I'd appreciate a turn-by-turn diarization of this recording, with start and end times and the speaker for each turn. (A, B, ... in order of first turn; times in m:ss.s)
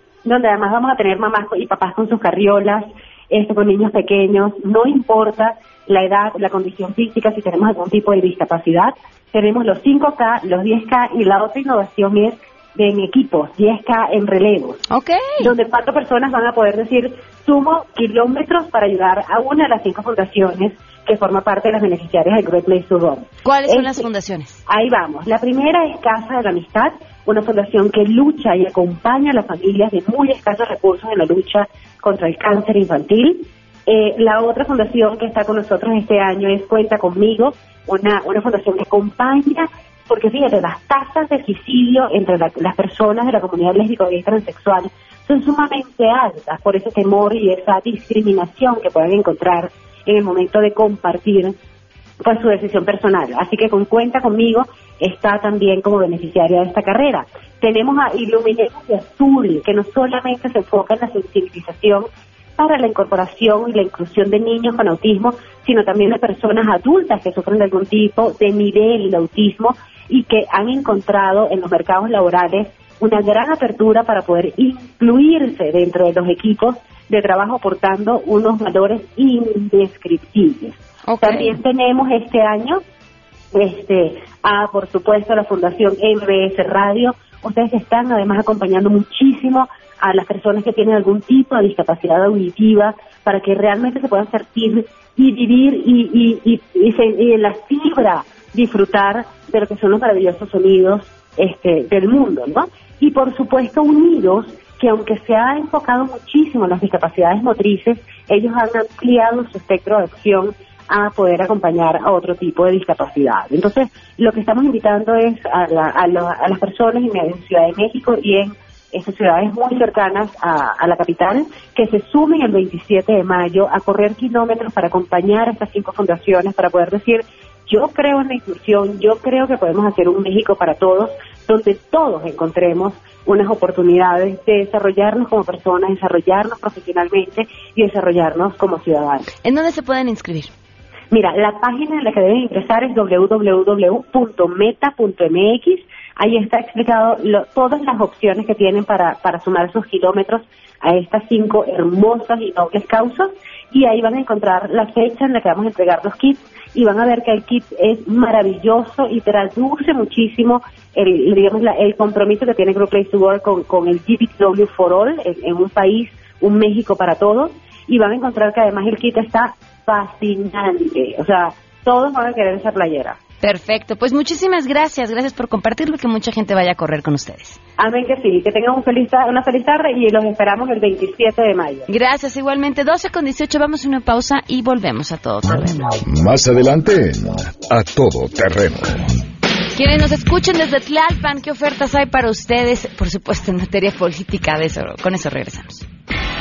0:00.2-0:14.8 A
0:14.9-0:15.5 B
0:15.4-0:24.0 A
0:23.4-0:24.6 B
0:24.7-0:51.6 A
0:52.2-1:22.8 A
1:21.1-1:21.6 B
1:23.5-2:19.3 A
2:19.4-2:20.5 B
2:21.1-2:53.2 A
2:53.4-2:57.6 B
2:57.8-3:01.8 A
3:01.9-3:06.0 B
3:06.0-3:09.1 C
3:09.8-3:15.8 B